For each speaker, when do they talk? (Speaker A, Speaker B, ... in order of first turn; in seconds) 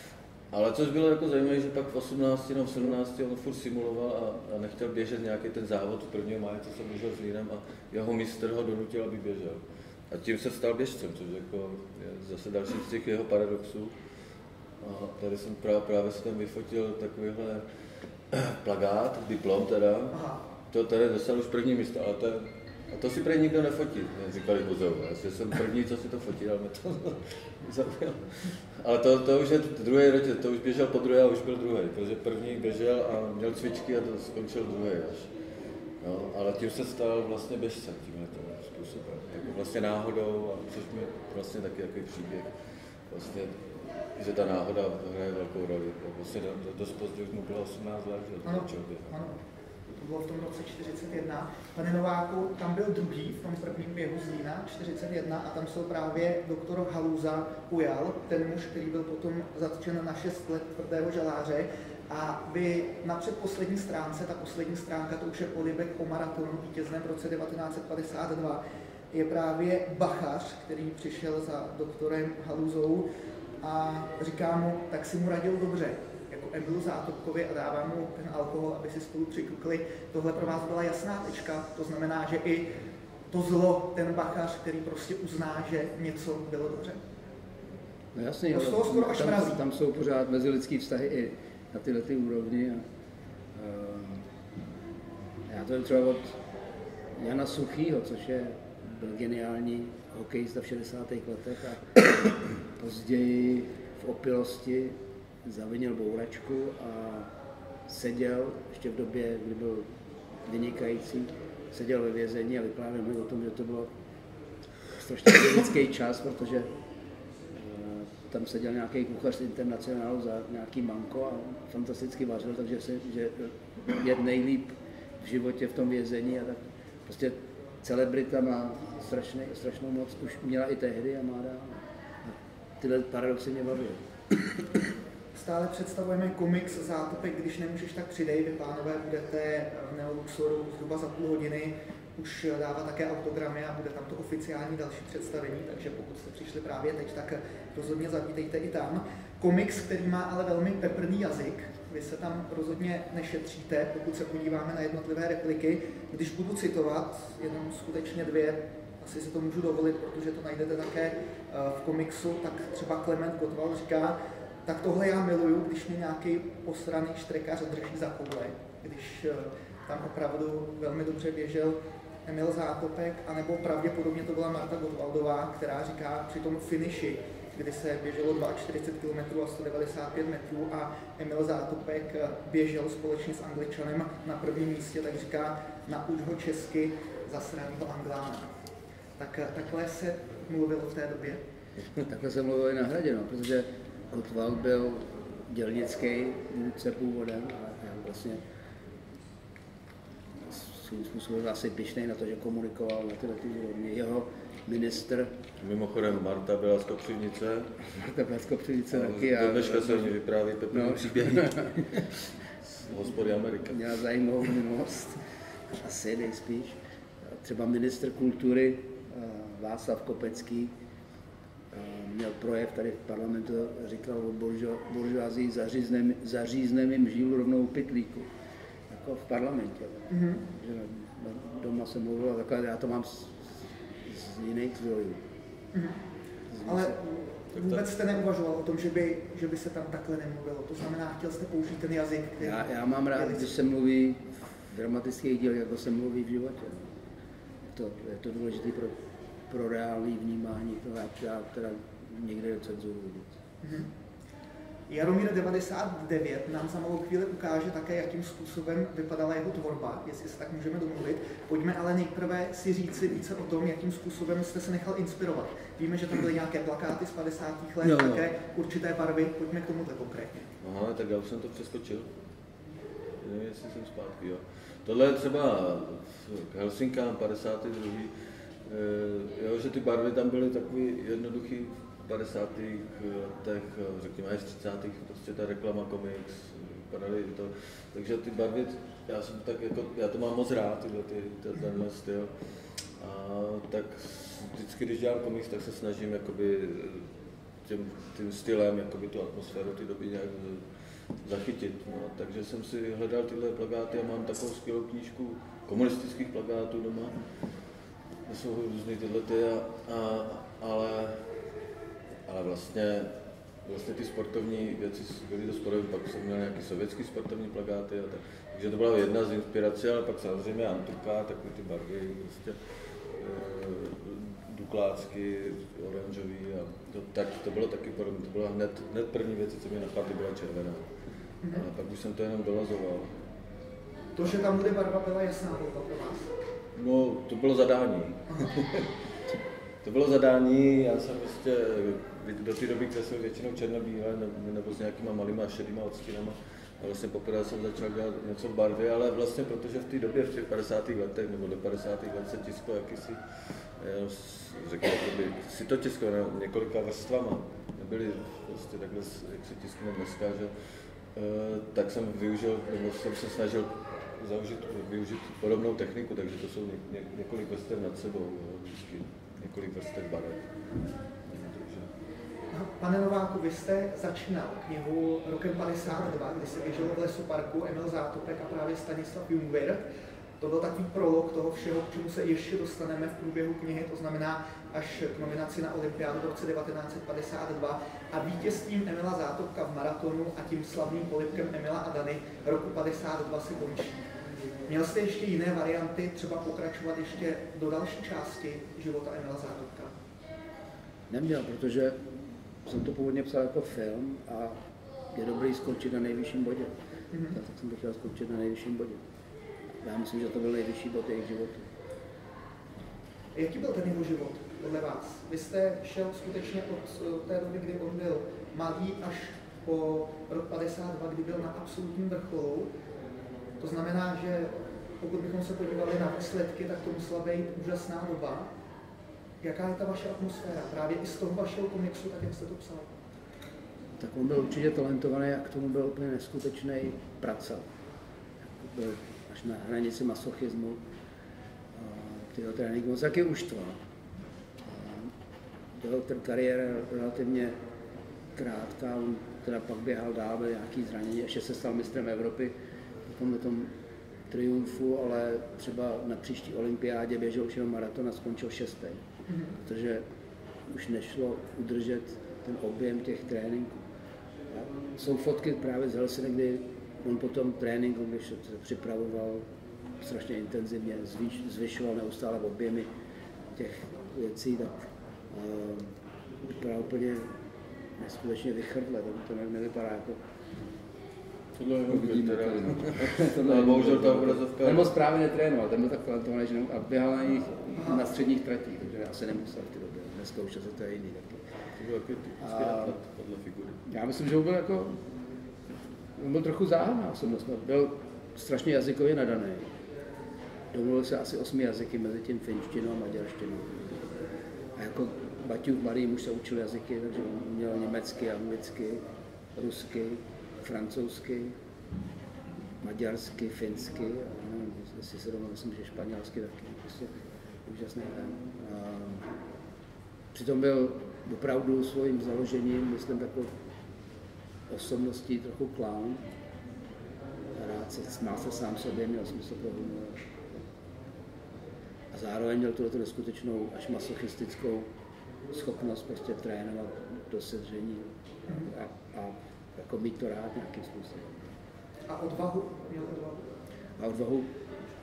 Speaker A: 0.5-13.9, 14.8-17.6, 18.3-35.3, 36.0-42.5, 43.1-49.1, 205.6-207.8, 208.9-213.8, 270.6-272.1, 273.2-278.1, 278.6-292.3, 293.0-297.1, 297.6-300.6, 301.2-307.2, 308.3-311.2, 312.3-313.1, 313.6-322.6, 323.1-330.9, 331.5-333.1, 336.8-338.9, 339.8-353.2, 353.8-360.5, 361.1-370.5, 371.2-371.9, 481.6-484.9, 491.8-493.8
Speaker B: 20.1-20.4, 48.5-49.4, 50.0-73.1, 73.6-82.8, 83.3-87.0, 88.5-89.6, 135.3-188.5, 189.2-191.4, 230.1-230.4, 235.7-236.0, 236.6-243.5, 253.6-253.9, 254.9-270.5, 334.2-336.3, 372.5-379.8, 380.4-394.0, 394.7-399.9, 413.4-422.7, 423.6-428.5, 429.4-432.9, 459.3-459.6, 487.8-488.1, 542.1-543.5
Speaker C: 88.1-92.8, 93.5-94.3, 95.5-96.4, 97.2-107.3, 107.9-109.9, 110.5-113.9, 114.9-116.7, 117.5-134.6, 192.1-198.4, 200.4-205.3, 207.9-210.2, 210.7-212.1, 213.7-215.2, 215.7-220.7, 221.7-228.3, 228.9-235.2, 236.5-237.0, 242.4-246.9, 247.7-249.0, 249.5-253.4, 401.1-402.1, 402.6-404.6, 405.1-406.7, 407.3-409.0, 409.8-411.7, 434.0-437.7, 438.6-440.8, 441.7-443.8, 444.6-445.1, 445.8-447.6, 448.4-452.5, 453.1-453.7, 454.3-459.0, 459.6-460.0, 460.7-463.8, 464.5-469.5, 470.0-472.9, 473.5-474.8, 475.3-477.4, 478.0-480.2, 481.9-491.4, 492.4-492.9, 493.9-495.0, 496.2-499.7, 500.7-504.0, 504.8-509.0, 509.6-511.6, 512.8-517.1, 517.6-519.3, 520.3-523.5, 524.7-526.3, 527.5-530.3, 532.1-534.9, 535.5-541.5, 544.0-544.6